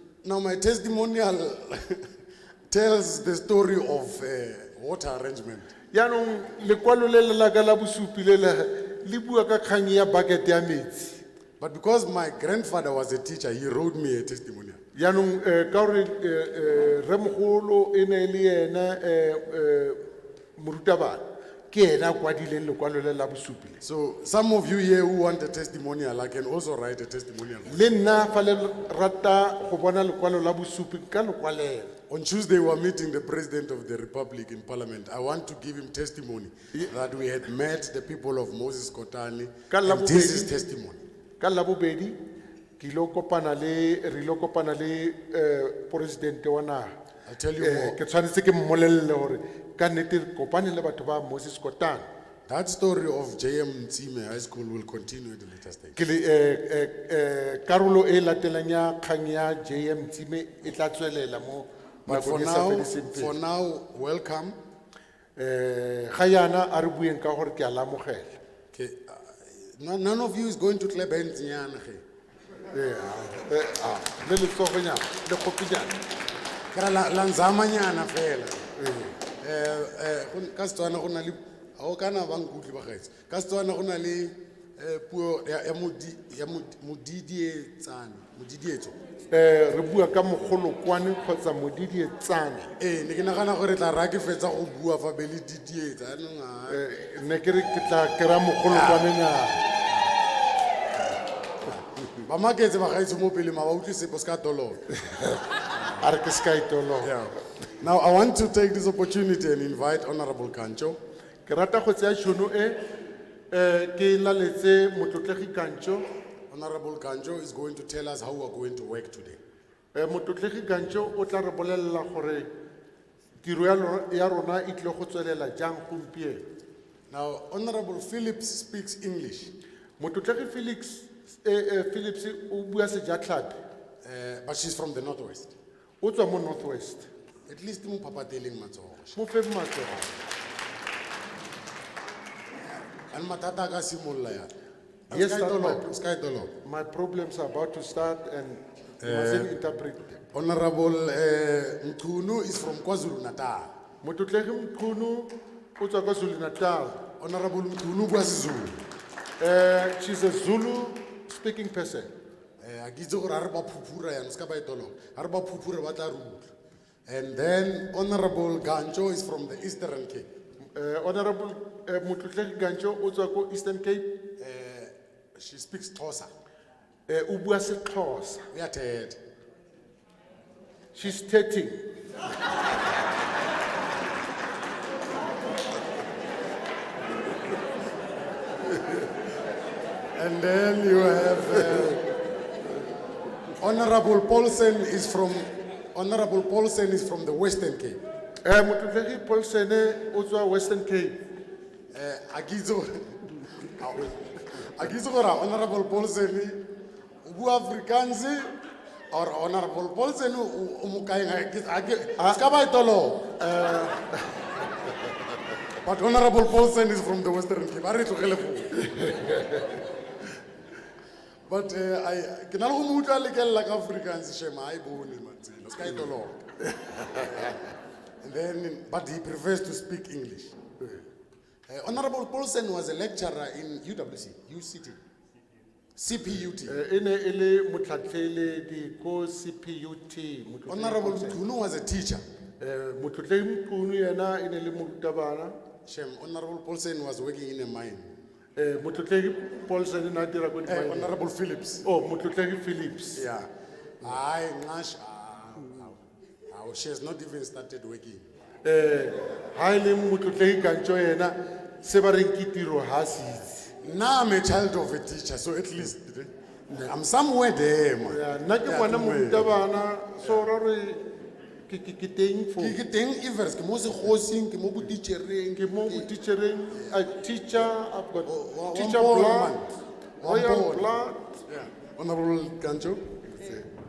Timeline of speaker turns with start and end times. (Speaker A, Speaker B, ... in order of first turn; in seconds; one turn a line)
Speaker A: 0.2-2.1
Speaker A: 2.7-5.7
Speaker B: 5.9-11.2
Speaker A: 11.6-14.8
Speaker B: 14.9-20.1
Speaker B: 20.6-23.8
Speaker A: 23.8-27.9
Speaker B: 27.6-31.9
Speaker A: 32.1-41.0
Speaker B: 39.7-40.5
Speaker B: 41.4-42.2
Speaker B: 42.8-47.0
Speaker A: 47.2-48.0
Speaker B: 47.6-52.1
Speaker A: 52.5-56.0
Speaker B: 56.0-63.4
Speaker A: 62.1-64.6
Speaker B: 65.4-68.4
Speaker A: 68.7-72.0
Speaker B: 72.7-76.0
Speaker A: 76.7-78.7
Speaker B: 78.8-79.2
Speaker A: 79.3-89.0
Speaker B: 89.3-92.7
Speaker A: 92.8-96.8
Speaker B: 96.7-99.6
Speaker A: 98.7-100.1
Speaker A: 102.1-104.8
Speaker B: 105.0-105.4
Speaker B: 106.0-107.2
Speaker A: 107.0-111.0
Speaker B: 111.5-112.8
Speaker B: 113.5-116.1
Speaker A: 116.5-119.4
Speaker B: 119.9-122.5
Speaker B: 123.4-126.5
Speaker A: 127.1-129.6
Speaker B: 130.0-133.6
Speaker A: 134.0-135.5
Speaker B: 136.0-137.1
Speaker A: 137.5-139.2
Speaker B: 139.1-140.2
Speaker A: 143.1-144.5
Speaker A: 145.1-146.5
Speaker B: 145.1-145.9
Speaker B: 146.6-150.2
Speaker A: 149.0-149.5
Speaker A: 150.3-153.8
Speaker B: 154.0-157.1
Speaker A: 157.2-158.8
Speaker B: 159.4-162.1
Speaker A: 162.6-166.5
Speaker A: 167.1-170.3
Speaker B: 170.7-174.2
Speaker A: 174.4-176.3
Speaker B: 177.1-178.5
Speaker A: 178.5-179.2
Speaker B: 180.9-181.9
Speaker A: 190.2-192.0
Speaker A: 193.6-198.0
Speaker B: 198.4-201.2
Speaker A: 201.9-206.6
Speaker A: 207.2-208.5
Speaker A: 209.1-213.3
Speaker B: 213.4-214.9
Speaker A: 215.8-219.2
Speaker A: 221.5-226.4
Speaker B: 226.8-227.2
Speaker A: 227.0-227.6
Speaker A: 228.2-230.6
Speaker A: 231.7-235.0
Speaker A: 236.0-236.8
Speaker B: 236.7-241.4
Speaker A: 240.7-242.2
Speaker B: 242.6-245.6
Speaker A: 245.8-248.1
Speaker B: 248.6-251.1
Speaker A: 250.7-251.9
Speaker B: 251.8-253.2
Speaker A: 253.2-253.5
Speaker A: 254.0-258.3
Speaker B: 258.6-263.7
Speaker A: 263.8-269.6
Speaker B: 268.1-271.1
Speaker B: 271.7-272.8
Speaker A: 272.6-276.1
Speaker B: 275.6-279.6
Speaker A: 278.2-281.0
Speaker B: 280.2-281.4
Speaker A: 281.5-283.2
Speaker B: 283.3-283.7